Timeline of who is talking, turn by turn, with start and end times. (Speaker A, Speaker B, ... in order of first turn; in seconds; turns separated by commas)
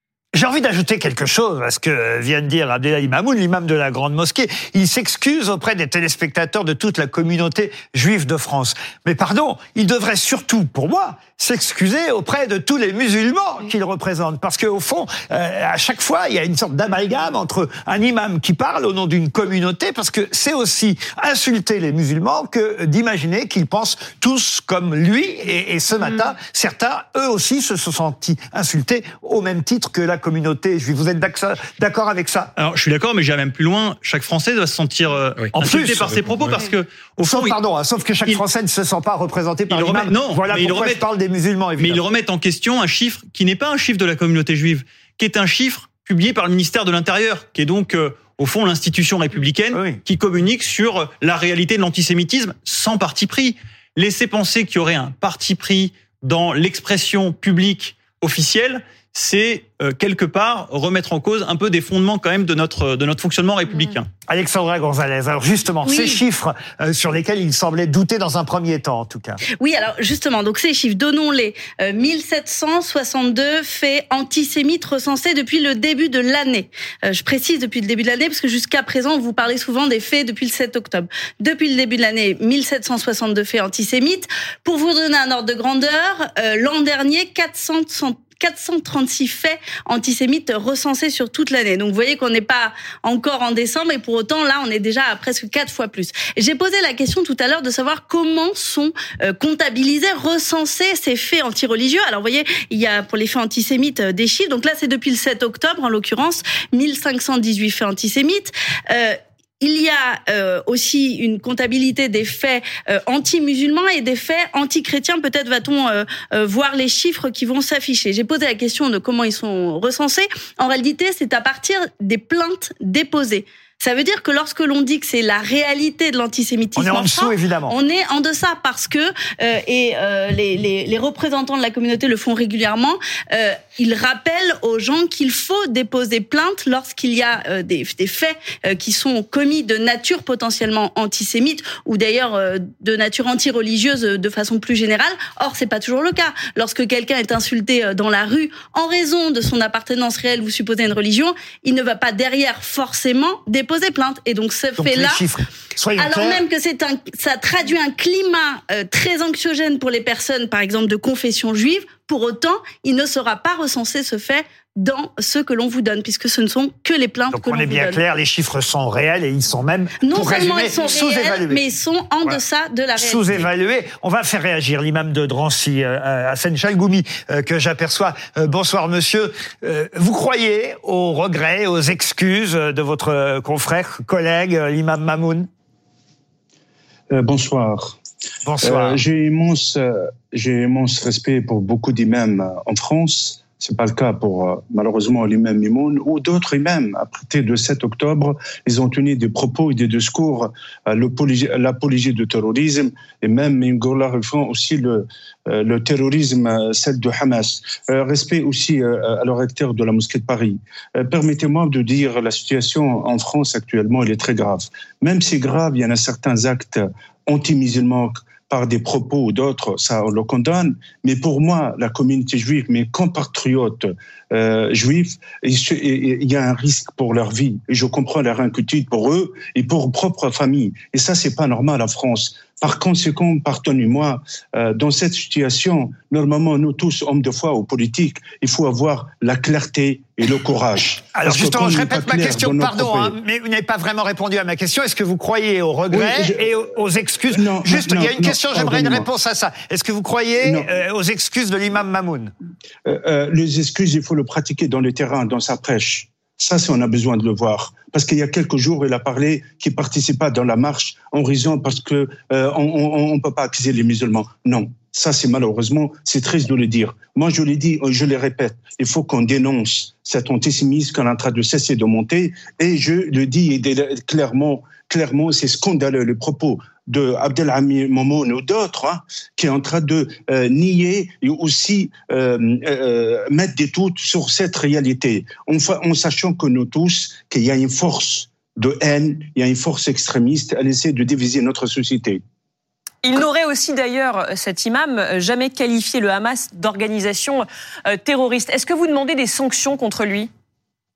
Speaker A: 0.3-32.5, Speaker B: 32.5-37.6, Speaker A: 35.5-36.2, Speaker A: 37.2-42.0, Speaker B: 39.7-41.0, Speaker B: 41.8-64.1, Speaker A: 49.7-50.0, Speaker A: 64.3-69.4, Speaker C: 65.8-66.2, Speaker C: 69.6-155.2, Speaker A: 126.8-127.8, Speaker A: 154.8-156.4, Speaker C: 156.0-168.0, Speaker A: 167.3-171.6, Speaker C: 170.0-173.4, Speaker A: 172.9-185.5, Speaker D: 187.1-188.0, Speaker A: 188.4-189.0, Speaker D: 188.6-243.1, Speaker A: 241.1-252.3, Speaker D: 245.9-246.4, Speaker D: 247.3-249.1, Speaker D: 250.4-250.7, Speaker D: 252.8-292.2, Speaker E: 293.0-300.3